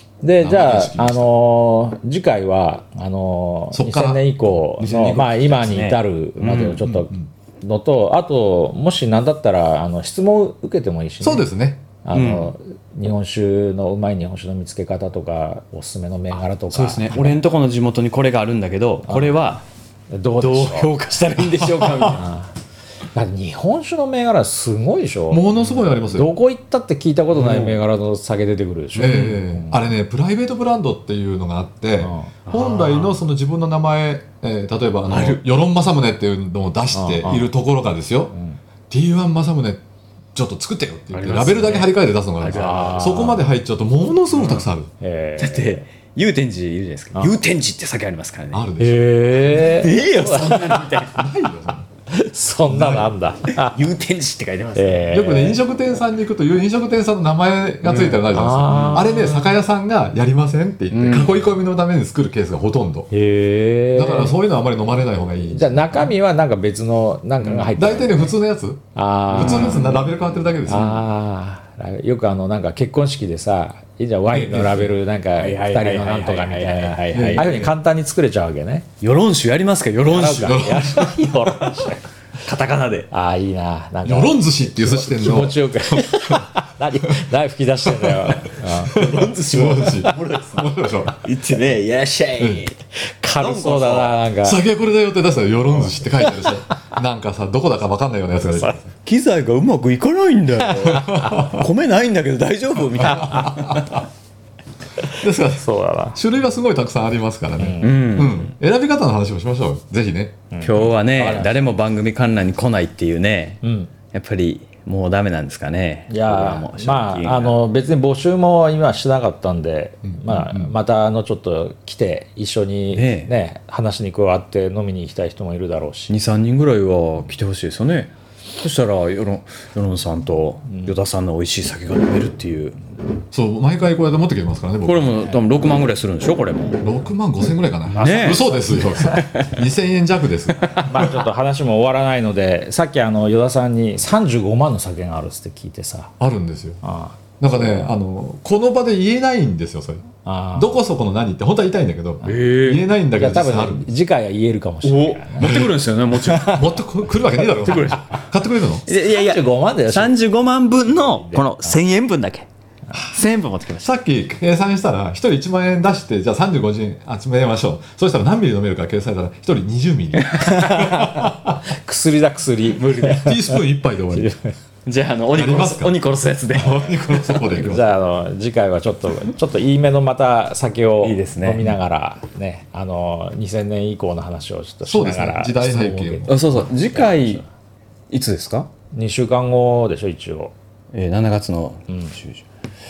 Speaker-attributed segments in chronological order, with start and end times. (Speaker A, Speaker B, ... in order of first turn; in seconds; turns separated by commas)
Speaker A: 0.2-11.5, Speaker B: 0.4-1.3, Speaker B: 3.7-4.6, Speaker C: 4.8-6.9, Speaker B: 6.8-7.2, Speaker B: 11.2-11.8, Speaker A: 12.0-17.2, Speaker C: 12.1-12.5, Speaker C: 16.7-19.6, Speaker A: 19.1-19.3, Speaker A: 20.1-20.9, Speaker C: 20.4-22.3, Speaker B: 21.6-22.1, Speaker A: 22.1-22.5, Speaker A: 23.1-25.5, Speaker B: 25.3-26.3, Speaker A: 26.0-29.7, Speaker C: 27.3-27.8, Speaker B: 28.9-38.3, Speaker C: 29.0-29.4, Speaker A: 32.0-32.3, Speaker C: 32.5-33.2, Speaker C: 35.1-35.4, Speaker A: 36.9-37.5, Speaker A: 38.3-38.6, Speaker B: 38.9-39.8, Speaker B: 40.3-44.9, Speaker C: 41.1-43.3, Speaker A: 42.5-43.4, Speaker C: 44.3-44.7, Speaker A: 45.0-45.8, Speaker C: 45.4-48.7, Speaker B: 48.5-49.9, Speaker A: 48.8-50.9, Speaker C: 49.5-51.2, Speaker B: 50.9-51.9, Speaker A: 52.1-53.8, Speaker B: 52.7-53.1, Speaker C: 53.5-55.1, Speaker A: 54.8-55.6, Speaker B: 55.1-63.1, Speaker C: 57.9-59.1, Speaker A: 58.0-59.4, Speaker C: 60.9-61.3, Speaker A: 63.1-64.4, Speaker B: 63.9-66.1, Speaker A: 65.5-68.3, Speaker B: 67.4-70.9, Speaker A: 68.9-69.9, Speaker C: 69.3-70.1, Speaker C: 70.7-71.0, Speaker A: 70.7-78.9, Speaker B: 74.3-74.9, Speaker C: 75.3-77.7, Speaker B: 77.1-77.7, Speaker C: 79.0-81.9, Speaker A: 80.1-82.0, Speaker B: 80.4-81.1, Speaker C: 82.4-83.1, Speaker A: 83.1-89.9, Speaker B: 84.0-86.5, Speaker B: 87.8-91.2, Speaker C: 88.9-92.7, Speaker B: 92.4-92.6, Speaker A: 93.0-94.6, Speaker C: 93.3-94.2, Speaker B: 94.4-98.9, Speaker A: 96.2-96.5, Speaker C: 99.0-104.0, Speaker B: 100.8-101.7, Speaker B: 103.0-104.0, Speaker B: 105.2-110.8, Speaker A: 105.4-106.2, Speaker A: 107.6-108.3, Speaker C: 107.8-108.5, Speaker A: 110.5-111.6, Speaker C: 110.6-117.6, Speaker A: 113.6-113.9, Speaker A: 116.1-126.1, Speaker B: 120.1-120.7, Speaker C: 122.9-123.3, Speaker C: 126.1-132.8, Speaker B: 133.3-135.4, Speaker C: 134.8-136.8, Speaker B: 136.8-141.2, Speaker C: 137.9-139.5, Speaker A: 138.0-139.2, Speaker A: 140.8-146.1, Speaker B: 146.2-146.8, Speaker A: 146.8-147.2, Speaker B: 147.4-153.9, Speaker A: 150.2-150.8, Speaker C: 152.2-152.8, Speaker A: 153.2-155.7, Speaker C: 154.8-156.7, Speaker B: 155.4-155.7, Speaker A: 156.3-156.6, Speaker B: 156.4-158.8, Speaker C: 157.3-158.3, Speaker C: 158.8-163.9, Speaker A: 158.9-160.2, Speaker A: 160.9-161.8, Speaker B: 163.8-171.6, Speaker A: 170.3-174.5, Speaker B: 172.9-174.3, Speaker C: 174.8-177.6, Speaker B: 175.3-176.0, Speaker B: 176.5-177.9, Speaker A: 177.4-187.4, Speaker C: 181.0-181.7, Speaker B: 184.8-186.4, Speaker C: 186.3-187.4, Speaker C: 188.1-188.7, Speaker A: 188.9-190.5, Speaker C: 190.9-192.4